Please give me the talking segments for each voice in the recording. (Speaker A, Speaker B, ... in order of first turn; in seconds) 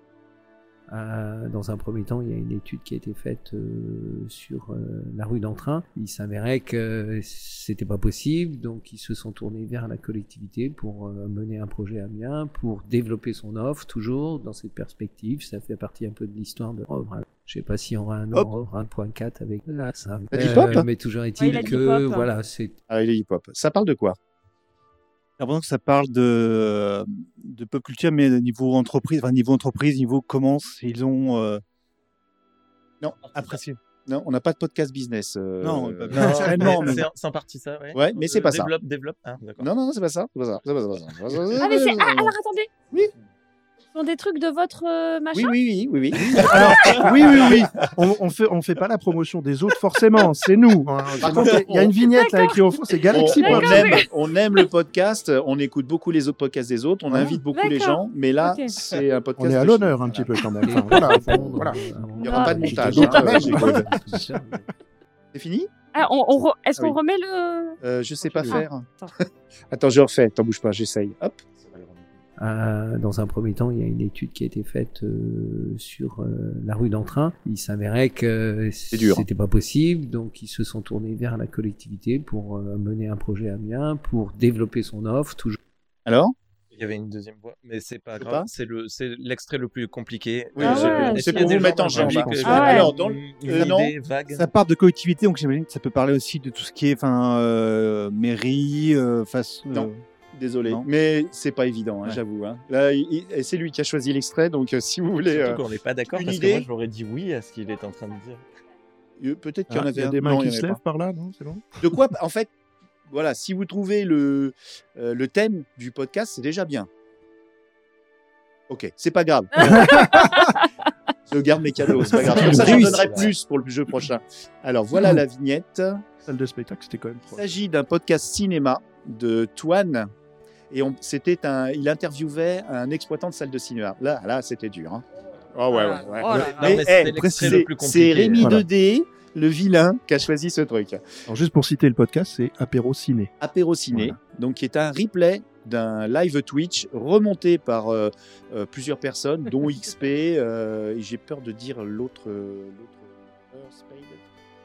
Speaker A: 0.9-22.8, 60.6-64.7, 72.4-85.6
Speaker B: 20.3-20.9, 22.9-24.2, 33.0-37.0, 38.0-38.7, 39.6-42.3, 45.3-47.7, 51.2-51.9, 53.1-60.3, 62.2-63.9, 65.3-65.7, 67.8-72.0, 78.9-79.2, 86.1-86.3, 88.2-88.5, 90.5-93.9, 99.7-105.6, 106.1-106.7, 109.2-110.8, 111.8-112.5, 113.1-116.9, 118.7-120.3, 121.3-126.0, 127.3-130.1, 130.7-135.0, 135.6-141.0, 143.4-154.2
Speaker C: 21.4-22.3, 41.6-42.7, 43.9-45.6, 46.5-47.0, 52.0-54.1, 57.5-58.7, 62.2-63.3, 65.9-69.1, 90.6-92.9, 119.6-120.7, 135.7-136.8
Speaker D: 25.4-31.6, 33.3-33.8, 35.6-37.0, 94.3-99.9, 122.5-123.2, 137.1-137.6
Speaker E: 36.1-39.7, 86.7-94.5, 105.3-108.4, 122.2-123.3, 136.3-138.6
Speaker F: 46.3-54.0, 59.4-61.8, 62.6-63.9, 109.7-111.9, 119.6-120.3, 122.3-122.8, 126.3-127.5, 138.4-138.7, 141.3-143.3, 143.9-144.2